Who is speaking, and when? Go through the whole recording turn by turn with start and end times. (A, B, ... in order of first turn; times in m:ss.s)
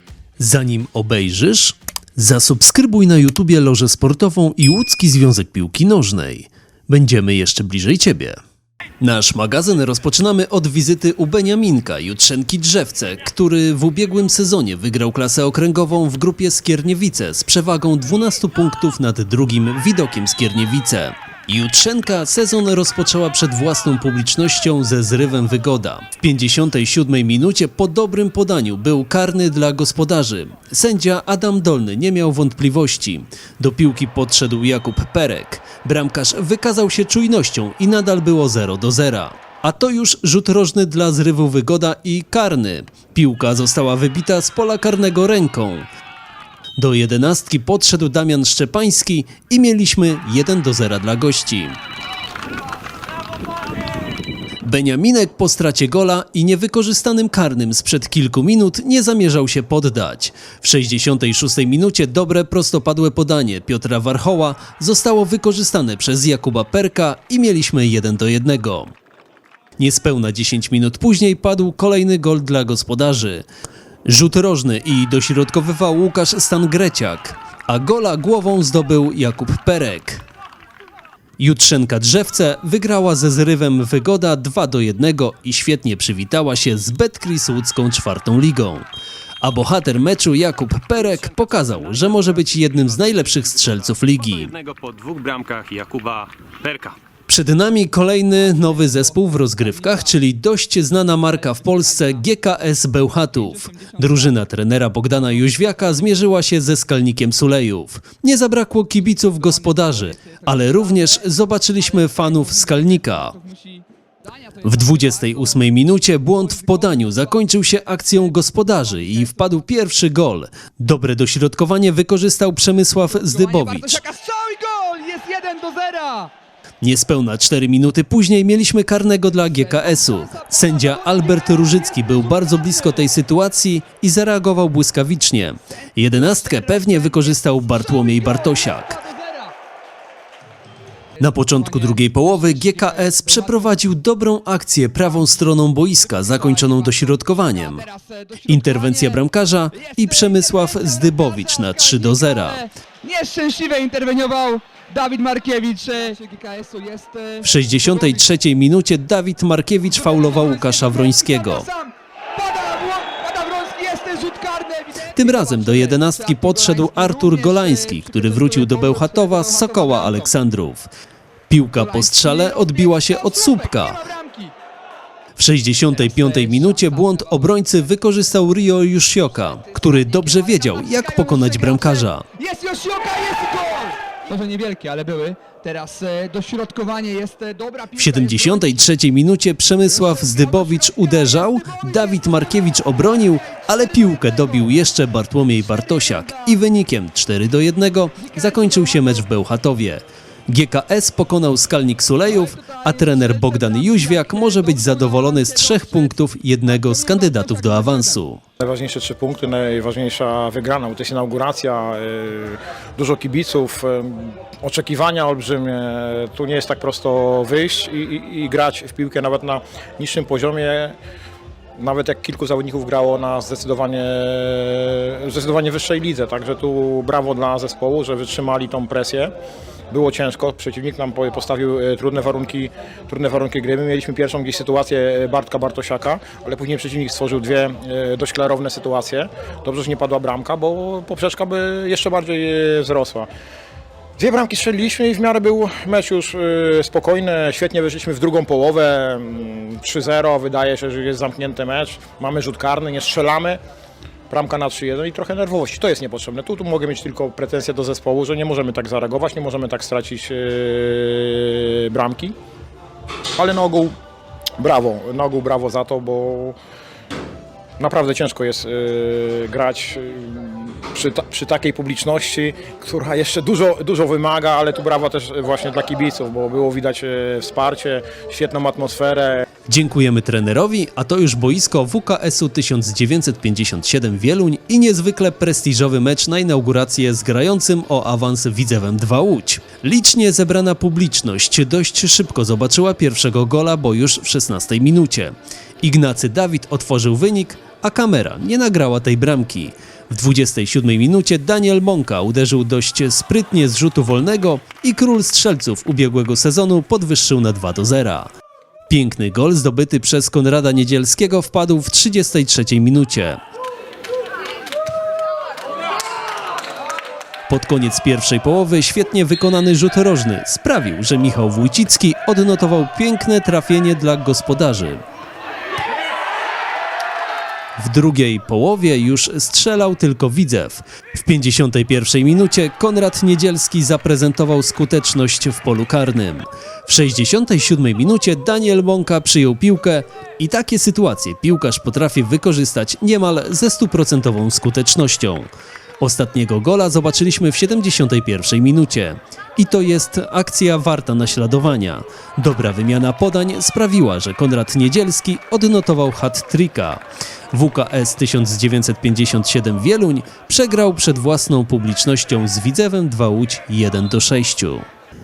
0:00.4-0:08.4 A
0:09.0-0:45.9 A
0:46.8-0:51.8 A
0:54.6-1:08.9 A
1:09.8-1:13.5 A
1:14.1-1:20.2 A
1:21.4-1:28.9 A
1:29.4-1:34.6 A
1:34.6-1:36.9 B
1:37.3-1:53.4 A
1:38.5-1:40.1 C
1:41.3-1:42.2 C
1:43.3-1:44.4 C
1:45.2-1:46.3 C
1:49.1-1:55.7 C
1:54.6-2:04.0 A
1:56.3-1:59.6 C
2:03.1-2:06.3 C
2:06.8-2:19.0 A
2:09.3-2:13.1 C
2:16.1-2:19.6 C
2:21.2-2:27.9 A
2:21.2-2:23.7 C
2:26.1-2:29.2 C
2:28.4-2:32.7 A
2:29.7-2:37.9 C
2:37.4-2:41.7 A
2:39.9-2:50.3 C
2:45.1-2:50.9 A
2:51.5-2:54.0 A
2:51.7-2:54.5 C
2:55.4-3:02.3 A
2:55.9-2:57.6 C
2:59.5-3:08.8 C
3:08.0-3:28.4 A
3:09.9-3:14.8 C
3:15.6-3:16.6 C
3:18.2-3:19.2 C
3:22.2-3:28.2 C
3:28.6-3:41.0 D
3:41.8-3:49.3 D
3:49.9-4:03.3 D
4:04.2-4:13.6 D
4:14.3-4:22.4 D
4:23.4-4:23.9 D
4:24.6-4:26.6 D
4:27.8-4:39.4 D
4:39.7-5:08.3 A
5:08.9-5:13.4 A
5:17.5-5:25.0 A
5:27.8-5:57.0 A
5:57.5-6:04.8 A